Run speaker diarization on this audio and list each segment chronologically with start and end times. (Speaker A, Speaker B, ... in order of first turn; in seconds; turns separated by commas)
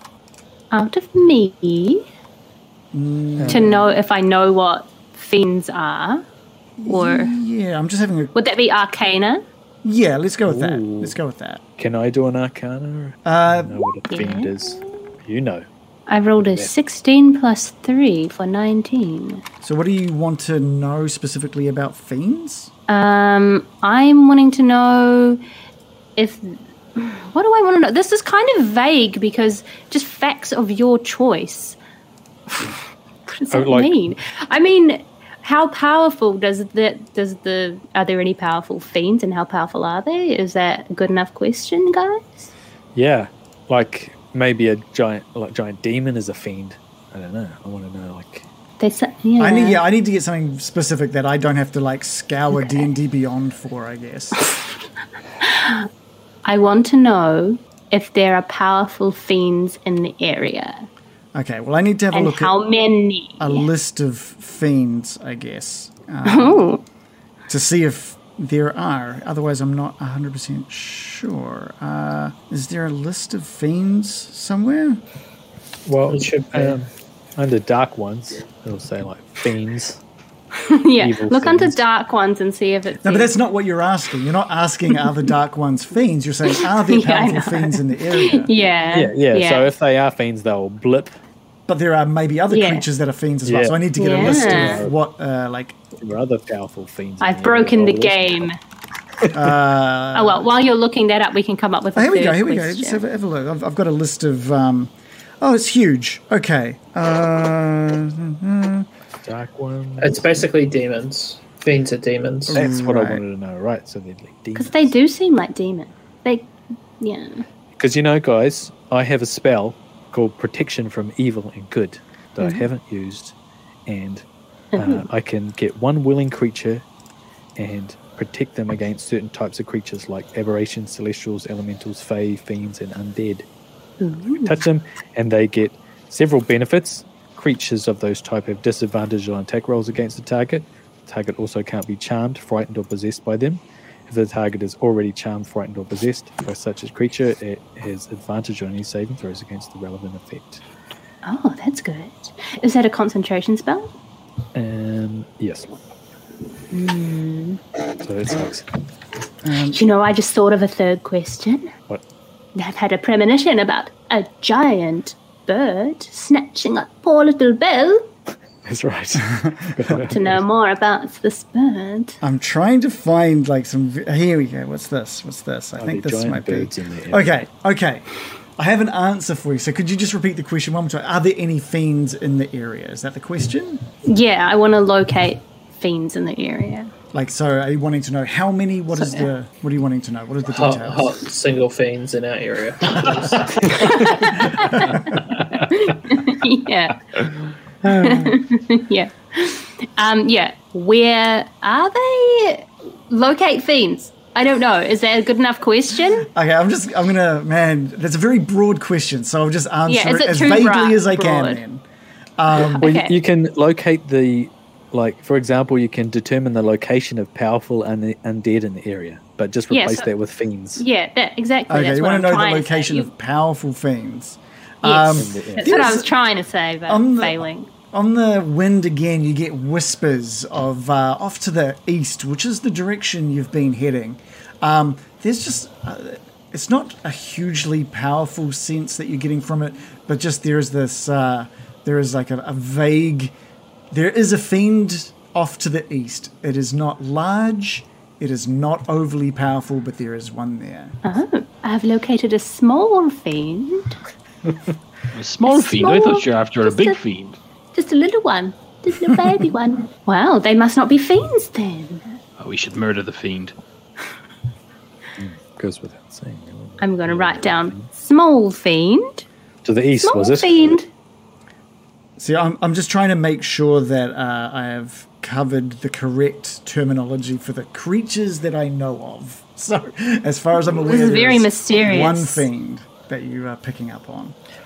Speaker A: 0.7-2.1, Speaker B: 2.9-3.8, Speaker C: 3.4-3.8, Speaker A: 3.5-6.2, Speaker B: 6.8-8.3, Speaker A: 6.8-7.3, Speaker A: 8.3-9.4, Speaker B: 9.8-11.6, Speaker C: 10.4-11.2, Speaker C: 11.8-15.7, Speaker B: 13.2-13.8, Speaker A: 14.1-14.7, Speaker A: 16.1-19.4, Speaker C: 16.4-16.7, Speaker B: 19.6-22.7, Speaker A: 22.9-25.4, Speaker A: 26.2-31.8, Speaker A: 33.3-42.5, Speaker C: 33.5-33.9, Speaker C: 42.9-48.5, Speaker A: 48.8-49.8, Speaker B: 49.4-54.4, Speaker A: 55.4-55.9, Speaker A: 56.4-60.9, Speaker B: 61.3-62.5, Speaker A: 62.1-63.7, Speaker B: 63.4-66.7, Speaker A: 66.2-66.8, Speaker B: 67.5-75.0, Speaker C: 75.8-80.0, Speaker D: 76.1-76.8, Speaker A: 80.5-83.3, Speaker C: 81.0-81.8, Speaker B: 83.0-88.5, Speaker A: 86.5-89.7, Speaker C: 88.9-91.2, Speaker B: 91.7-95.8, Speaker A: 92.5-92.8, Speaker C: 93.5-94.9, Speaker A: 94.0-94.8, Speaker C: 96.0-98.5, Speaker A: 97.2-98.5, Speaker B: 99.3-100.4, Speaker A: 100.1-103.0, Speaker B: 101.9-108.9, Speaker C: 109.2-110.4, Speaker D: 110.0-112.5, Speaker B: 112.5-113.2, Speaker C: 112.5-114.9, Speaker A: 114.5-117.4, Speaker C: 117.8-123.3, Speaker A: 122.4-122.7, Speaker C: 123.9-124.2, Speaker A: 124.7-125.0, Speaker C: 124.8-126.8, Speaker C: 127.6-133.4, Speaker A: 134.0-134.6, Speaker C: 134.4-150.6, Speaker A: 151.2-153.9, Speaker C: 154.5-155.8, Speaker A: 156.7-157.6, Speaker C: 158.0-158.7, Speaker B: 159.4-159.8, Speaker A: 159.7-161.7, Speaker A: 162.5-168.0, Speaker C: 168.6-170.4, Speaker B: 169.3-170.1, Speaker A: 170.1-172.2, Speaker B: 172.2-178.1, Speaker C: 175.8-177.4, Speaker B: 178.6-183.8, Speaker A: 184.0-186.9, Speaker B: 187.1-191.2, Speaker A: 188.9-189.3, Speaker D: 190.5-194.4, Speaker A: 193.7-197.0, Speaker A: 197.8-206.3, Speaker B: 206.2-211.8, Speaker A: 209.9-211.6, Speaker B: 212.4-212.9, Speaker A: 212.6-213.2, Speaker C: 212.8-220.8, Speaker A: 219.7-220.1, Speaker A: 220.8-223.1, Speaker B: 221.7-226.1, Speaker A: 224.8-227.7, Speaker C: 225.2-225.7, Speaker B: 226.9-243.3, Speaker B: 243.9-251.0, Speaker A: 251.0-254.0, Speaker E: 255.1-257.4, Speaker A: 255.5-257.0, Speaker A: 257.7-262.2, Speaker E: 262.4-263.6, Speaker C: 265.2-267.9, Speaker A: 266.8-269.2, Speaker C: 269.6-270.7, Speaker A: 270.0-270.9, Speaker B: 272.2-284.4, Speaker A: 280.7-282.4